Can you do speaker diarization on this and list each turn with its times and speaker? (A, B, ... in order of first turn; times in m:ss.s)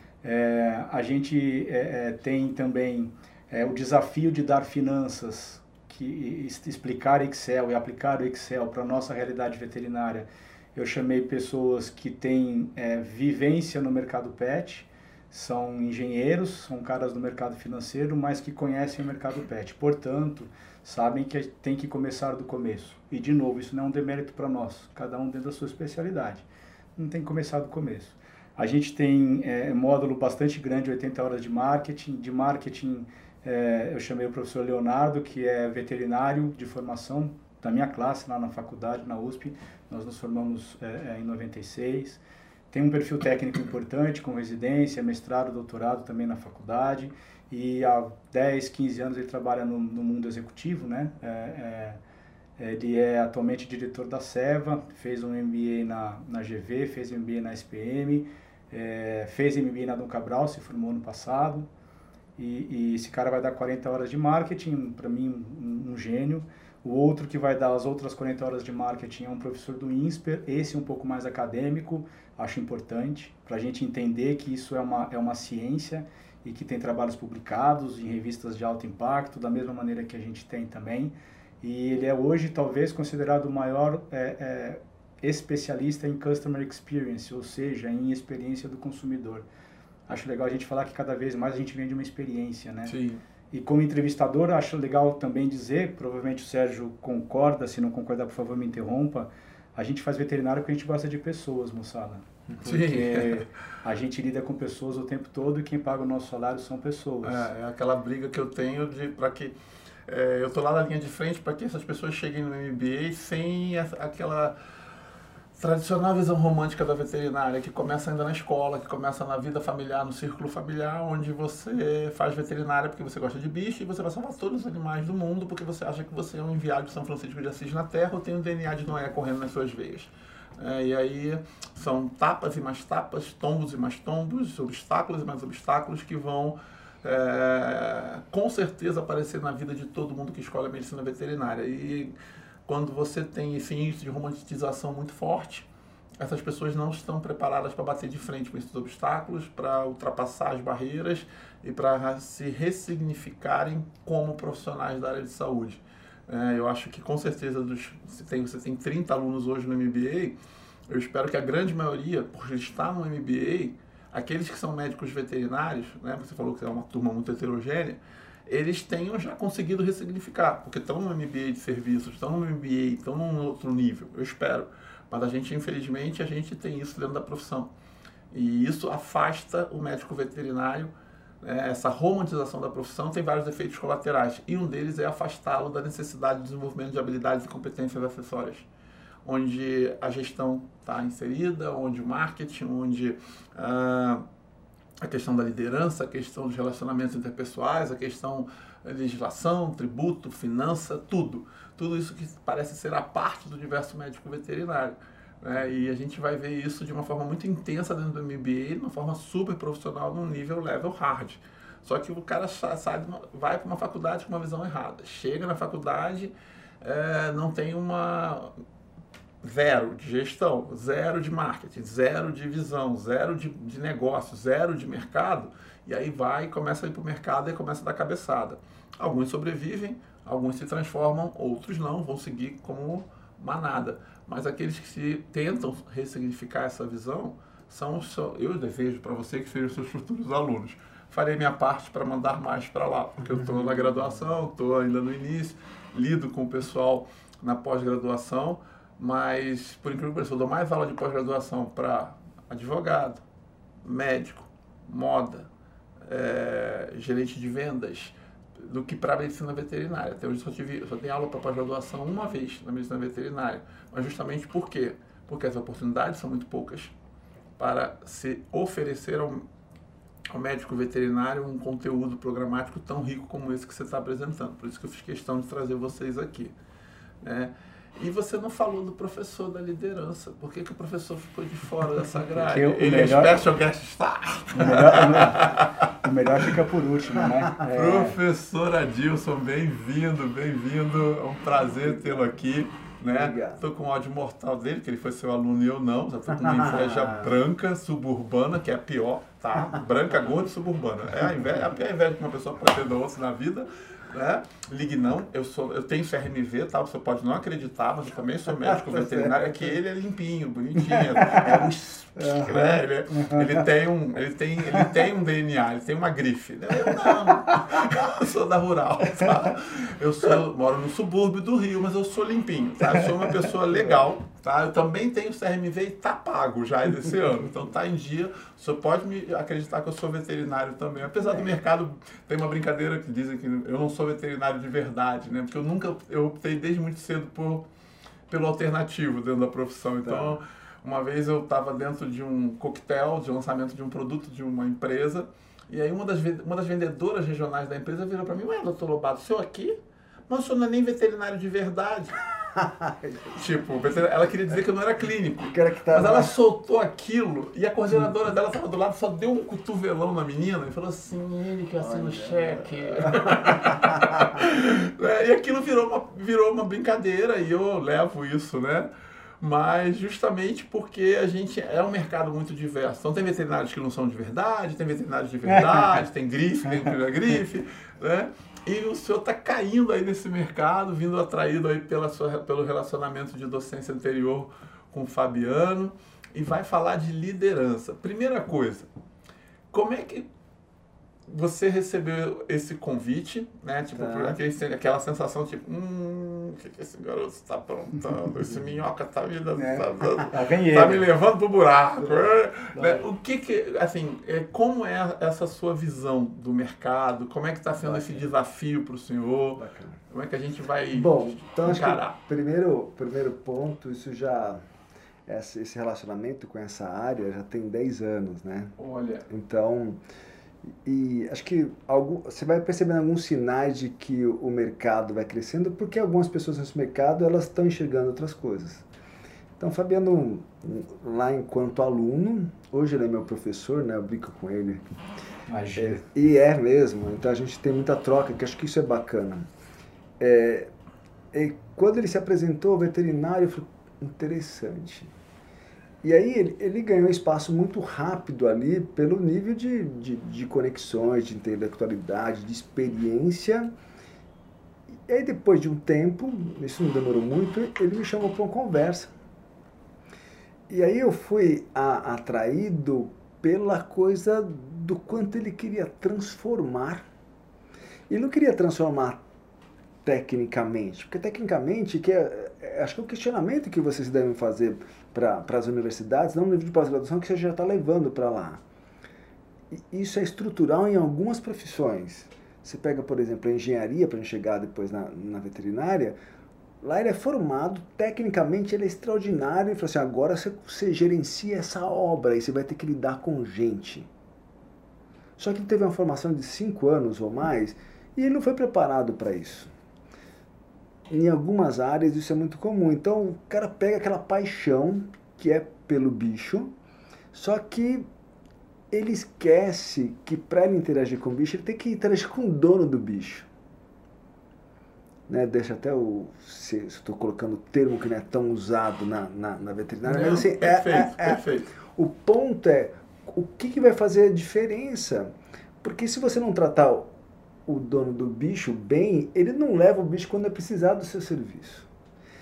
0:00.2-0:52.0 A
0:52.6-1:01.7 A
1:02.4-1:29.4 A
1:30.1-1:32.9 A
1:32.9-1:33.2 B
1:33.5-1:47.5 A
1:42.6-1:43.4 B
1:47.2-1:49.5 B
1:50.1-1:54.6 B
1:55.6-2:22.1 B
2:22.6-2:25.7 B
2:26.2-2:40.4 B
2:40.9-2:57.7 B
2:58.3-3:08.6 B
3:09.2-3:14.2 B
3:15.0-3:38.5 B
3:39.4-4:13.2 B
4:13.8-4:15.5 B
4:16.1-4:26.9 B
4:27.6-4:29.4 B
4:30.3-4:36.5 B
4:37.2-4:45.7 B
4:42.4-4:43.4 A
4:44.5-4:48.1 A
4:47.5-4:48.1 C
4:47.7-5:37.7 B
4:53.1-4:53.6 C
4:56.3-4:57.4 C
5:08.7-5:09.5 C
5:12.2-5:13.4 A
5:31.2-5:31.5 C
5:38.3-5:49.8 B
5:40.0-5:40.4 C
5:50.3-5:52.3 B
5:52.5-5:53.4 C
5:53.3-6:08.9 B
5:55.5-5:56.3 C
6:01.8-6:04.4 C
6:09.4-6:28.9 B
6:15.4-6:16.0 A
6:29.7-6:30.3 B
6:31.3-6:52.2 B
6:33.9-6:34.4 C
6:39.6-6:41.1 A
6:47.9-6:48.2 C
6:49.6-6:50.0 C
6:50.9-6:54.6 C
6:55.2-6:58.7 C
6:58.8-6:59.2 B
6:59.3-7:00.0 C
7:00.8-7:08.9 C
7:09.6-7:14.9 C
7:15.5-7:16.0 A
7:15.7-7:19.5 C
7:20.2-7:20.7 C
7:21.3-7:25.1 C
7:26.0-7:33.7 C
7:35.1-7:39.1 C
7:40.7-7:47.1 C
7:48.1-7:49.2 C
7:50.0-7:58.6 C
7:59.7-8:06.2 C
8:06.8-8:14.1 C
8:15.4-8:19.7 C
8:21.1-8:26.7 C
8:27.3-8:28.1 C
8:28.9-8:33.5 C
8:35.3-8:47.1 C
8:40.0-8:41.7 B
8:47.6-8:51.9 C